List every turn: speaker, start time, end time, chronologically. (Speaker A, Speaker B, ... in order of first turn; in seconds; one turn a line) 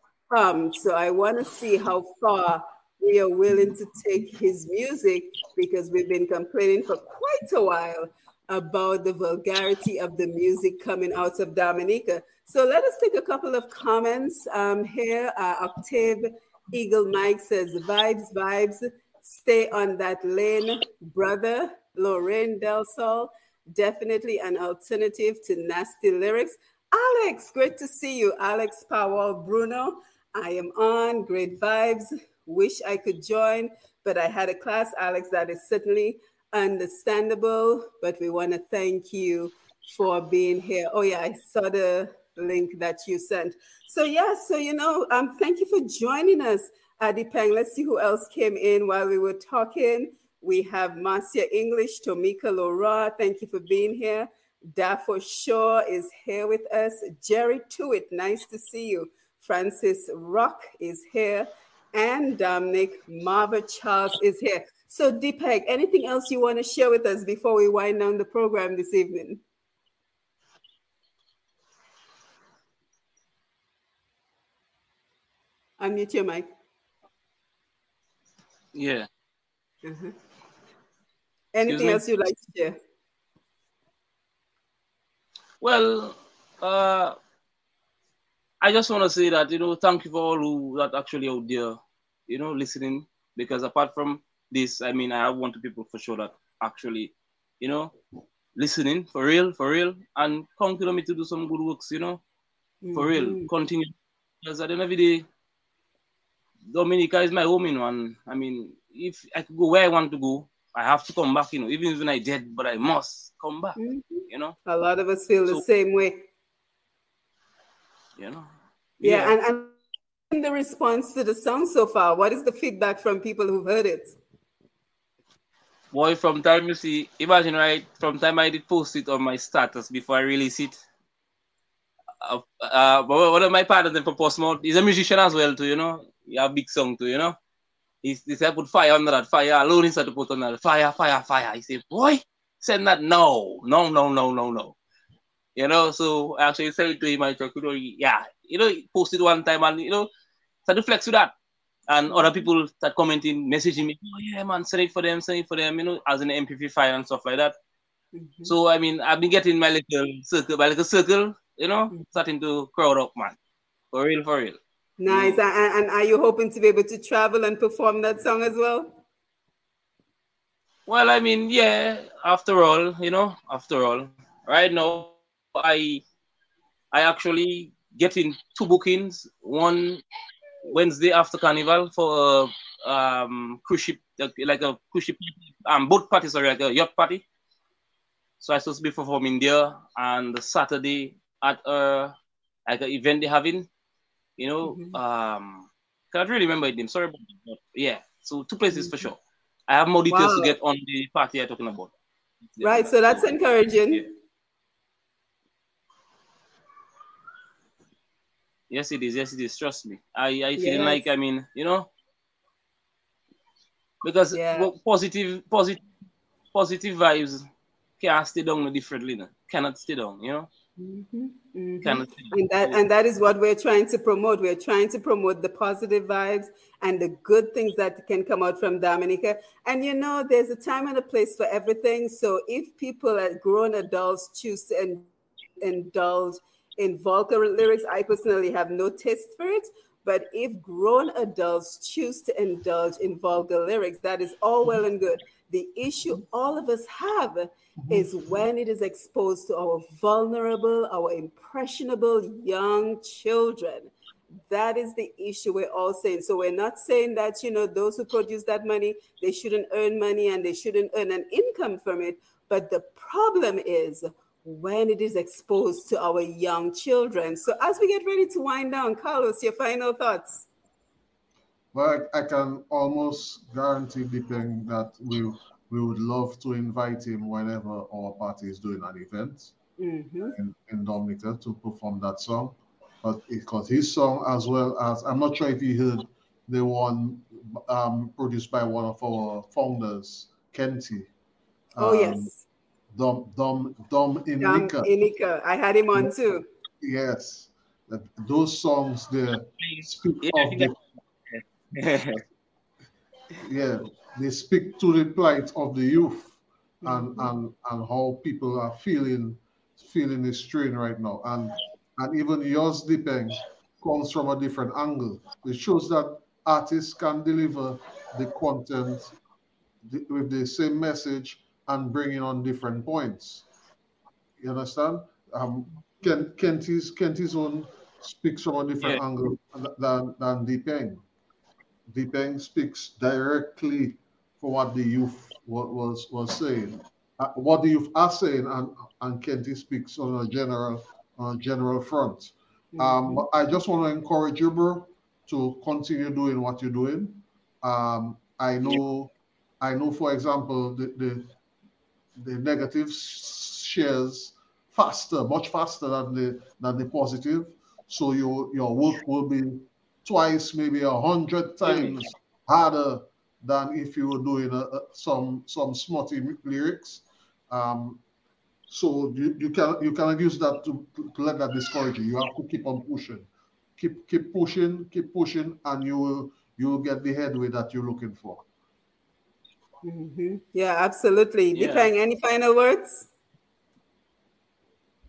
Speaker A: 0.3-69.4
Speaker A: 75.8-76.5
Speaker B: 78.7-79.1
Speaker A: 79.8-80.1
Speaker A: 81.5-82.8
Speaker B: 81.7-82.0
Speaker B: 85.6-87.1
Speaker B: 88.6-97.9
Speaker B: 98.5-102.2
Speaker A: 102.8-103.5
Speaker B: 102.9-105.2
Speaker B: 106.7-113.8
Speaker A: 113.8-116.2
Speaker B: 114.3-114.6
Speaker B: 118.2-118.5
Speaker B: 119.0-119.3
Speaker A: 119.0-119.7
Speaker A: 120.3-124.2
Speaker B: 125.9-130.8
Speaker B: 132.2-137.4
Speaker B: 138.0-144.8
Speaker B: 145.6-150.1
Speaker B: 150.7-151.3
Speaker B: 151.9-157.5
Speaker A: 152.1-152.4
Speaker A: 158.1-158.5
Speaker B: 158.4-163.4
Speaker B: 163.9-165.4
Speaker A: 165.0-169.0
Speaker B: 170.9-176.0
Speaker B: 176.9-180.0
Speaker B: 180.6-187.2
Speaker B: 188.4-192.1
Speaker B: 192.7-193.7
Speaker B: 194.4-201.9
Speaker A: 194.6-194.9
Speaker A: 198.7-199.0
Speaker A: 200.1-200.6
Speaker B: 202.6-203.3
Speaker A: 202.6-204.1
Speaker B: 208.7-211.9
Speaker A: 210.6-211.0
Speaker B: 214.0-215.8
Speaker A: 214.3-214.7
Speaker B: 216.5-217.4
Speaker B: 218.0-220.5
Speaker A: 220.8-235.1
Speaker B: 221.8-222.8
Speaker A: 235.6-253.9
Speaker A: 254.5-270.5
Speaker C: 271.7-279.5
Speaker A: 279.8-280.3
Speaker C: 280.3-291.1
Speaker C: 291.7-292.3
Speaker A: 291.8-292.4
Speaker C: 292.9-294.9
Speaker A: 294.4-296.4
Speaker C: 296.8-300.7
Speaker B: 299.6-300.7
Speaker B: 301.7-302.2
Speaker C: 303.4-319.1
Speaker A: 306.8-307.3
Speaker C: 319.8-323.4
Speaker C: 324.4-331.0
Speaker C: 331.9-351.3
Speaker A: 342.7-343.2
Speaker C: 352.2-368.0
Speaker C: 368.7-378.4
Speaker A: 379.8-383.1
Speaker B: 381.5-381.9